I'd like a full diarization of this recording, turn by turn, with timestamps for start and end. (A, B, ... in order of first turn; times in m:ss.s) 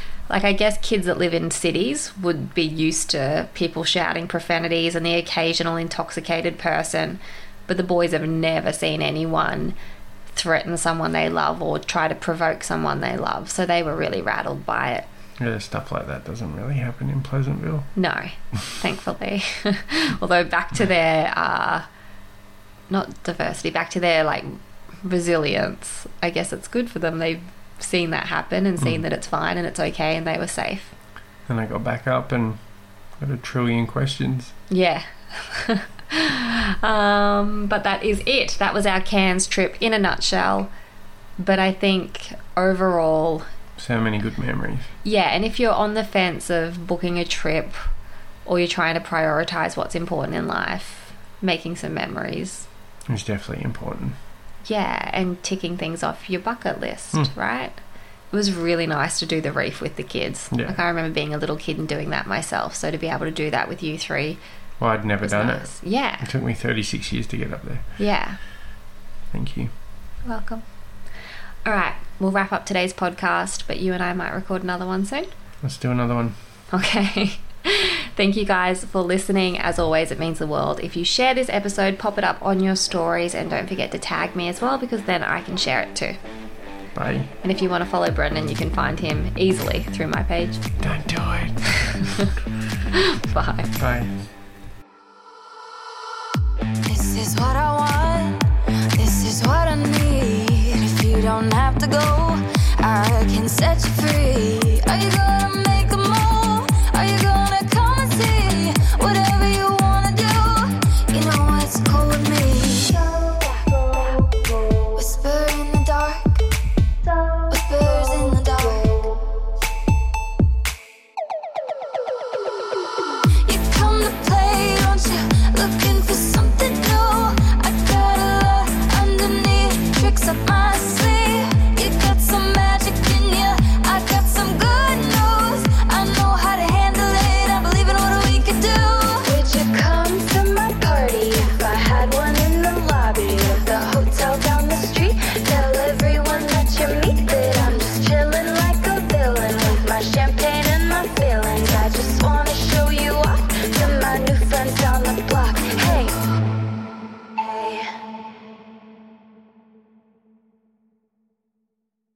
0:00.3-0:09.7 A
0:10.3-0:15.1 A
0:15.4-0:17.9 B
0:18.0-0:21.9 A
0:22.9-0:30.9 A
0:31.5-0:32.6 B
0:33.2-0:34.5 B
0:34.7-0:40.7 A
0:41.4-0:43.5 A
0:43.8-0:44.9 B
0:45.0-0:47.8 A
0:48.4-0:52.7 A
0:53.1-0:54.2 B
0:54.6-0:57.8 A
0:58.3-1:04.4 A
1:00.5-1:00.8 B
1:04.8-1:07.9 B
1:05.2-1:06.3 A
1:08.0-1:08.4 A
1:09.3-1:09.7 B
1:10.2-1:10.6 A
1:11.6-1:15.3 A
1:15.6-1:16.4 B
1:16.7-1:26.2 A
1:26.9-1:27.3 B
1:27.4-1:30.6 A
1:30.8-1:32.3 B
1:31.7-1:32.3 A
1:32.9-1:33.8 A
1:33.8-1:34.1 B
1:36.9-1:53.5 C
1:54.9-1:56.4 C
1:57.5-1:59.2 C
2:03.4-2:36.2 C
2:37.4-2:37.9 C